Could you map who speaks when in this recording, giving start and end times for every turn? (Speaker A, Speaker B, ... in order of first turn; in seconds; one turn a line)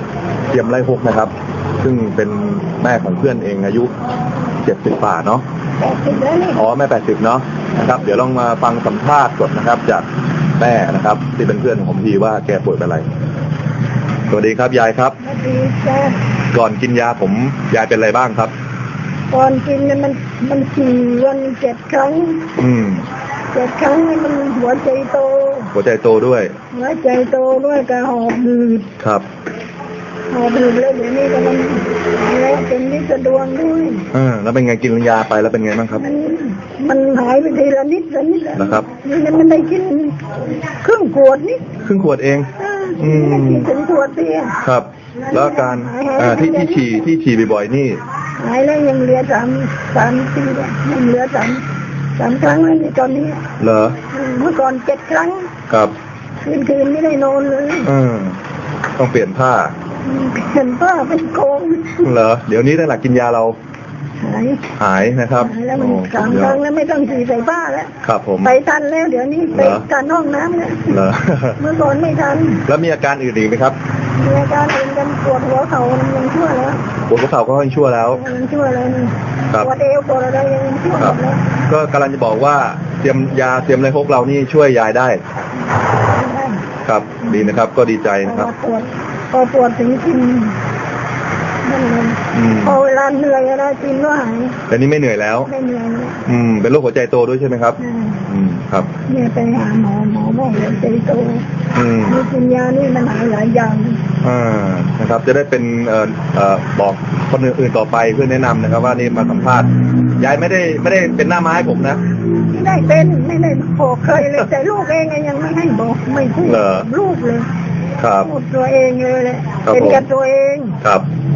Speaker A: 0.5-3.9
Speaker A: 4.6-5.4
Speaker B: 5.8-6.6
Speaker A: 6.6-13.1
Speaker A: 14.3-15.2
Speaker B: 15.2-16.2
Speaker A: 16.5-18.5
Speaker B: 19.3-22.5
Speaker A: 22.6-23.1
Speaker B: 23.5-25.7
Speaker A: 25.7-26.6
Speaker B: 26.7-28.9
Speaker A: 29.0-29.3
Speaker B: 30.3-34.0
Speaker A: 34.1-36.0
Speaker B: 36.0-41.6
Speaker A: 38.6-38.9
Speaker A: 41.8-43.7
Speaker B: 42.6-44.6
Speaker A: 44.6-48.0
Speaker B: 45.2-46.9
Speaker B: 48.4-51.6
Speaker B: 52.2-53.4
Speaker A: 53.6-54.0
Speaker B: 54.1-55.5
Speaker A: 55.7-55.9
Speaker B: 56.5-57.9
Speaker A: 57.8-58.4
Speaker A: 59.0-59.8
Speaker B: 60.0-62.1
Speaker A: 62.0-63.6
Speaker B: 64.2-64.6
Speaker A: 64.8-66.6
Speaker B: 65.4-71.0
Speaker A: 68.0-68.5
Speaker A: 69.5-69.9
Speaker A: 70.9-71.6
Speaker B: 71.6-72.6
Speaker A: 72.7-73.8
Speaker B: 74.2-76.8
Speaker A: 77.1-78.2
Speaker B: 78.1-81.4
Speaker A: 81.0-85.2
Speaker B: 86.1-86.6
Speaker A: 86.9-88.5
Speaker B: 87.2-87.5
Speaker B: 88.2-90.6
Speaker B: 91.7-94.6
Speaker A: 92.3-92.8
Speaker A: 94.7-95.5
Speaker B: 95.5-96.2
Speaker A: 96.3-98.9
Speaker B: 97.8-98.2
Speaker B: 99.1-101.5
Speaker A: 101.7-102.2
Speaker B: 102.1-104.0
Speaker A: 104.2-112.0
Speaker B: 112.5-117.5
Speaker A: 116.5-116.9
Speaker A: 118.0-118.3
Speaker B: 118.2-120.8
Speaker A: 119.7-120.0
Speaker A: 120.8-121.1